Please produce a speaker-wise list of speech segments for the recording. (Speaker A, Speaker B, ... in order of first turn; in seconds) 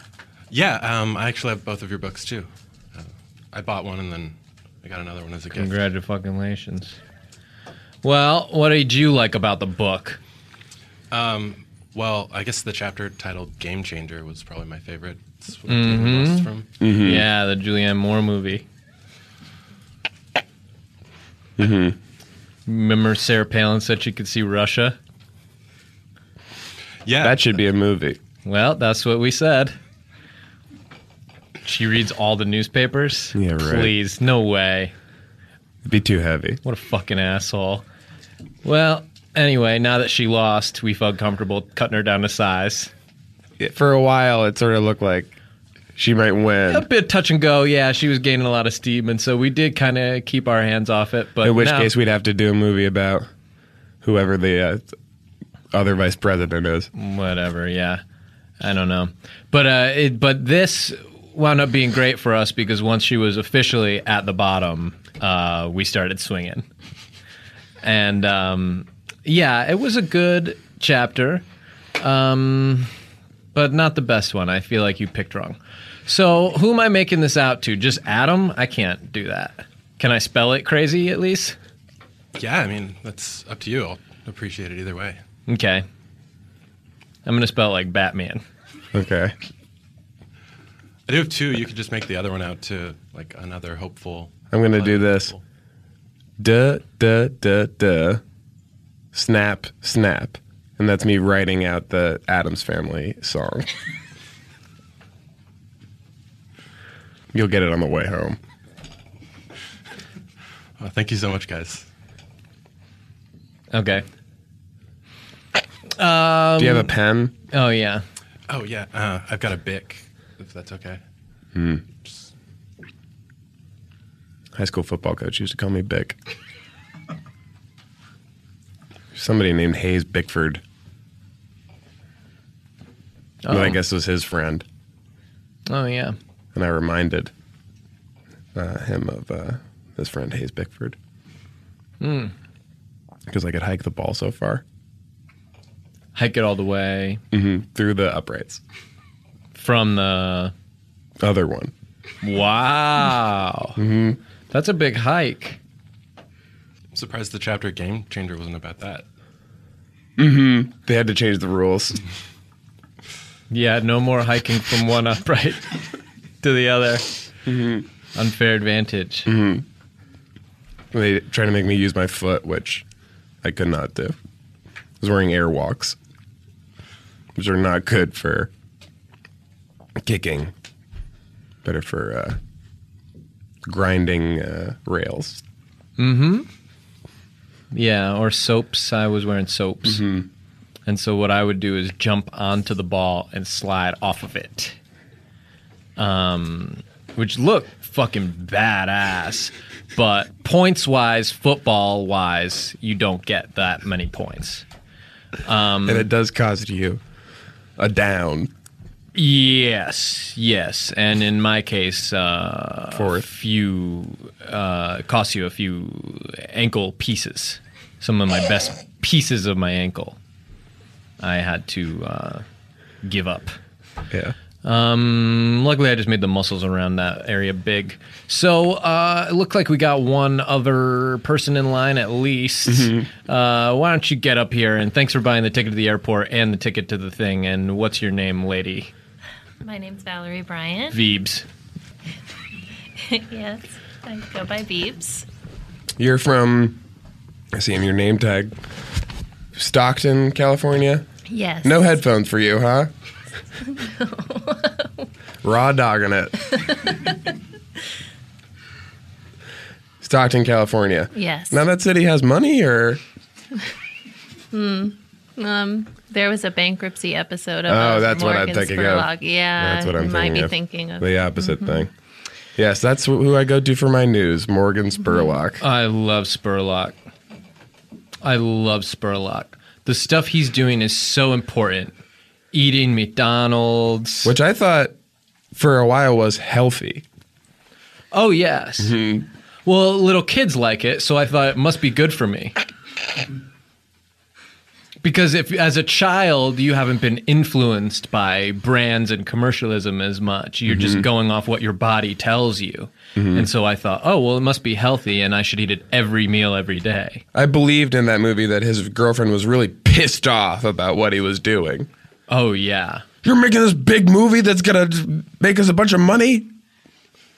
Speaker A: 0.5-5.8, 11.1-16.7, 27.0-27.6, 82.3-85.2, 91.1-95.4, 110.8-111.8, 118.5-121.0, 122.0-122.3, 156.9-159.0
Speaker B: 5.5-7.0, 8.0-10.2, 15.7-18.6, 22.7-25.0, 28.4-29.7, 31.6-34.9, 36.6-37.8, 38.6-42.9, 46.7-51.9, 56.9-58.0, 58.6-66.6, 67.8-71.4, 72.0-72.9, 73.5-81.5, 85.5-85.8, 87.2-88.4, 113.7-114.0, 116.0-116.9, 117.5-118.0, 133.4-133.8, 135.7-136.2, 142.0-142.3, 146.1-147.2, 149.5-150.5, 152.2-153.8, 154.5-155.6, 163.5-165.8, 166.4-167.1, 168.1-169.3, 186.0-186.5, 187.7-190.1, 190.8-194.8, 196.0-204.6, 205.4-206.1, 209.1-220.2, 221.2-222.4, 223.0-223.6, 224.6-238.9, 240.9-241.4, 275.6-276.9, 278.2-281.9, 282.5-284.3, 288.1-288.9, 289.6-292.5, 295.0-307.2, 312.3-313.0
Speaker C: 16.8-17.3, 21.6-22.0, 27.2-28.2, 33.3-33.9, 35.8-36.6, 43.6-45.3, 46.0-46.9, 51.4-53.3, 54.0-54.9, 55.7-56.9, 88.9-89.3, 94.5-95.3, 96.4-98.2, 99.1-103.7, 107.3-108.4, 116.6-117.3, 121.5-121.8, 124.5-126.2, 129.1-130.6, 133.5-134.6, 136.5-137.3, 138.5-140.9, 143.3-144.6, 147.3-148.6, 151.2-151.7, 153.8-154.2, 160.2-162.0, 167.4-167.8, 169.2-169.6, 170.9-172.8, 173.4-174.2, 175.0-176.0, 177.3-178.5, 180.0-180.5, 181.6-182.4, 183.6-185.4, 189.8-190.3, 205.8-207.0, 207.8-208.5, 212.9-213.3, 232.7-233.1, 246.0-246.8, 247.5-248.5, 249.6-251.0, 251.6-252.9, 255.4-256.3, 260.0-263.0, 267.7-271.9, 272.6-275.6, 284.2-284.9, 285.5-287.0, 288.8-289.3, 300.7-301.1, 303.1-303.5, 307.3-311.9, 313.2-316.5
Speaker D: 239.6-241.0, 243.0-245.2, 251.3-251.9, 253.8-254.9, 261.1-261.7, 264.5-271.8, 275.1-275.3